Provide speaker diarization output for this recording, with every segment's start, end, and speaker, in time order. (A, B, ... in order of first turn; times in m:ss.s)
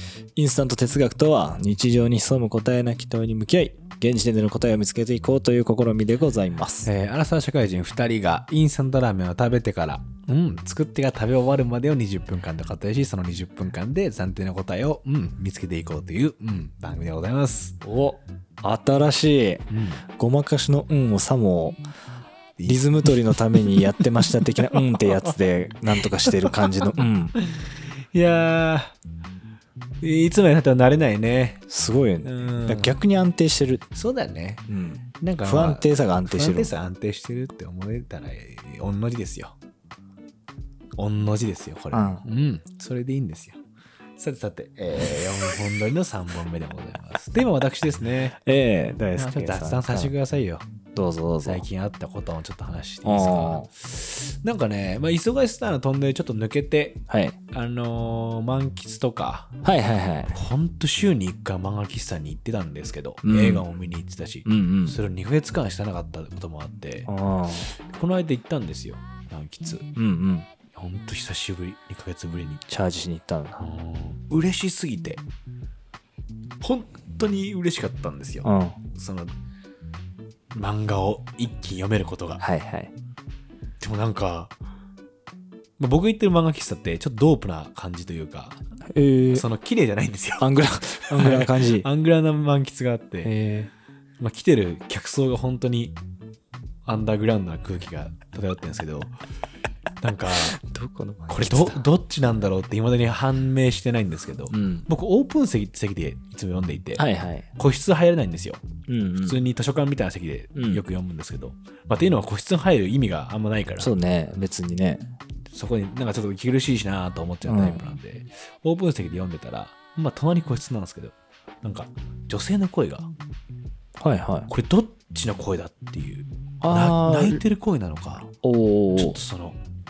0:00.4-0:06.9 A
0:06.8-0:17.8 B
0:17.8-0:21.8 A
0:19.7-0:20.0 B
0:22.6-0:25.3 B
0:22.7-0:27.4 A
0:26.0-0:26.7 B
0:27.4-0:28.9 B
0:30.0-0:31.6 B
0:31.7-0:33.8 A
0:32.2-0:33.0 B
0:33.9-0:34.7 B
0:34.7-0:36.7 A
0:35.2-0:39.6 B
0:41.0-0:43.6 B
0:41.9-0:42.2 A
0:44.2-0:48.4 B
0:48.4-0:50.1 A
0:49.2-0:50.7 B
0:51.0-0:51.6 A
0:51.4-0:57.0 B
0:53.0-0:53.7 A
0:57.1-0:57.4 A
0:57.5-0:59.5 B
0:59.6-1:00.3 A
1:00.3-1:07.1 B
1:03.2-1:03.6 A
1:04.4-1:05.0 A
1:07.1-1:07.7 A
1:07.7-1:09.9 B
1:10.0-1:10.5 A
1:10.7-1:12.6 B
1:12.7-1:13.6 A
1:13.6-1:15.2 B
1:16.6-1:19.3 B
1:18.4-1:18.8 A
1:20.5-1:22.4 B
1:22.4-1:22.9 A
1:23.8-1:24.5 B
1:25.8-1:28.6 B
1:28.9-1:29.5 A
1:29.3-1:33.3 B
1:30.4-1:31.9 A
1:33.2-1:33.7 A
1:34.2-1:36.0 B
1:36.9-1:39.1 B
1:40.0-1:40.6 B
1:40.4-1:41.8 A
1:41.3-1:47.0 B
1:44.5-1:44.9 A
1:47.0-1:47.5 A
1:47.6-1:48.6 B
1:48.9-1:49.4 A
1:49.2-1:53.9 B
1:50.6-1:50.8 A
1:53.8-1:55.0 A
1:55.5-2:03.1 B
1:57.4-1:57.8 A
2:04.0-2:04.5 A
2:04.5-2:08.3 B
2:06.6-2:07.4 A
2:08.4-2:09.2 A
2:09.0-2:09.6 B